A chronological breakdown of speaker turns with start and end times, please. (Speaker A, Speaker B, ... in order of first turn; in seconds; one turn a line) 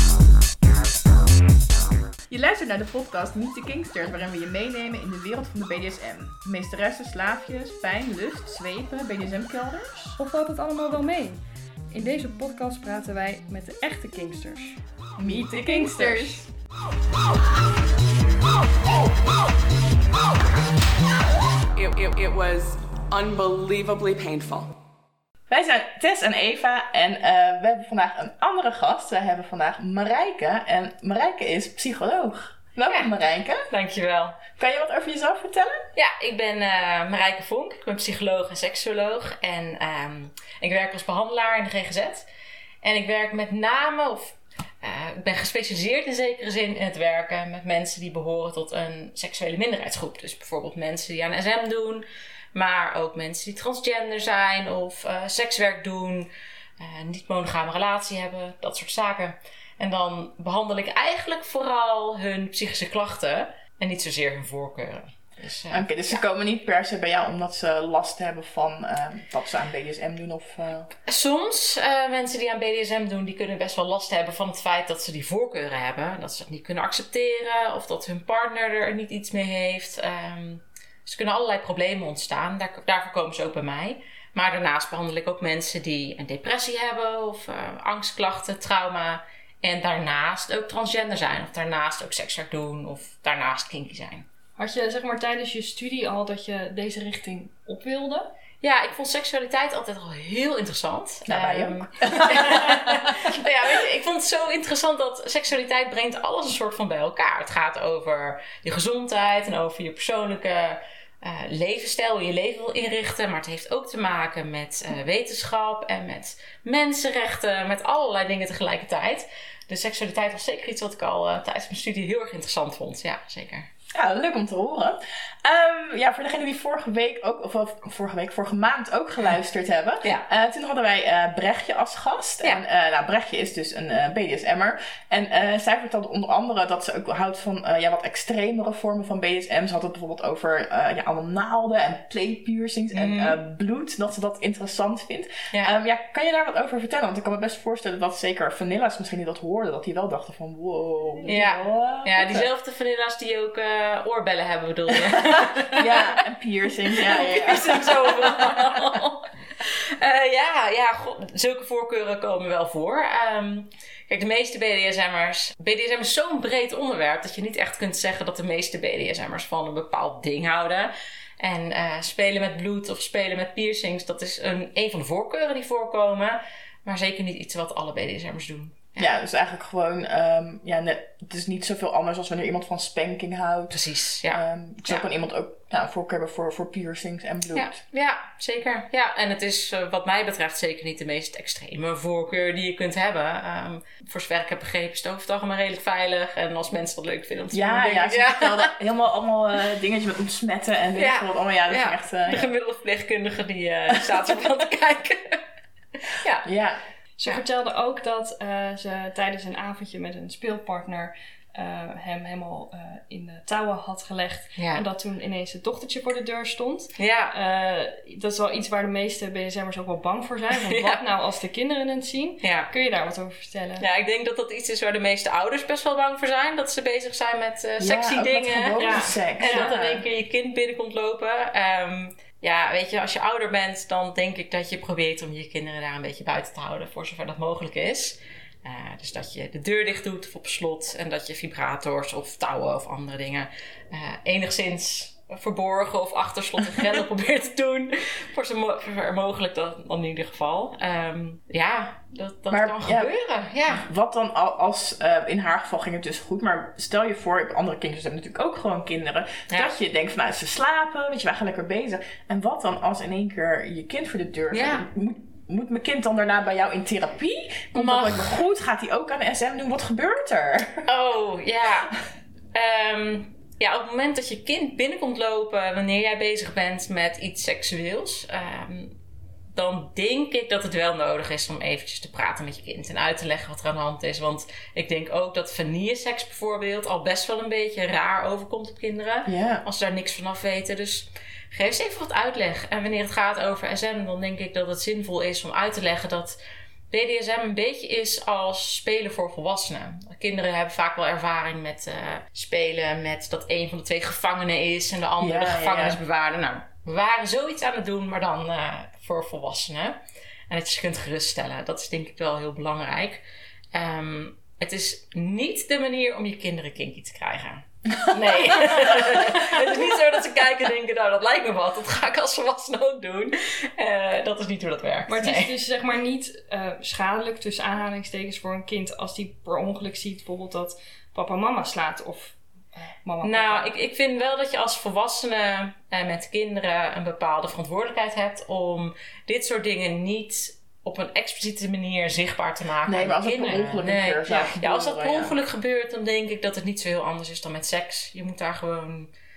Speaker A: 2.3-10.2
Speaker B: 10.2-16.4
Speaker A: 15.2-16.4
Speaker C: 21.7-24.7
Speaker A: 25.5-33.7
Speaker D: 32.9-33.1
Speaker D: 33.7-34.4
Speaker A: 34.5-35.9
Speaker D: 36.0-42.3
Speaker D: 42.8-66.2
Speaker A: 65.7-70.9
Speaker D: 71.1-94.2
Speaker B: 94.6-98.3
Speaker D: 98.6-123.7
Speaker A: 101.3-103.9
Speaker A: 123.9-152.5
Speaker D: 142.9-143.4
Speaker D: 151.3-156.2
Speaker A: 155.7-158.8
Speaker D: 156.9-179.2
Speaker A: 179.0-187.8
Speaker D: 183.7-185.1
Speaker D: 187.5-198.7
Speaker A: 197.5-202.5
Speaker D: 200.9-205.4
Speaker A: 203.9-204.3
Speaker D: 206.0-206.5
Speaker A: 206.4-206.8
Speaker B: 207.2-223.8
Speaker D: 214.6-214.8
Speaker D: 217.0-217.3
Speaker D: 220.6-221.0
Speaker D: 222.4-222.7
Speaker D: 223.8-253.8
Speaker A: 227.8-230.0
Speaker B: 228.8-229.9
Speaker A: 252.5-253.1
Speaker A: 253.7-270.9
Speaker D: 264.5-264.9
Speaker D: 267.7-268.4
Speaker D: 270.9-271.9
Speaker D: 272.5-279.0
Speaker D: 279.5-296.4
Speaker A: 289.2-289.6
Speaker D: 296.9-310.0
Speaker A: 305.2-306.0
Speaker D: 310.5-313.2
Speaker D: 313.7-325.6
Speaker A: 318.0-319.9
Speaker B: 325.1-333.7
Speaker D: 333.2-349.1
Speaker A: 342.9-345.4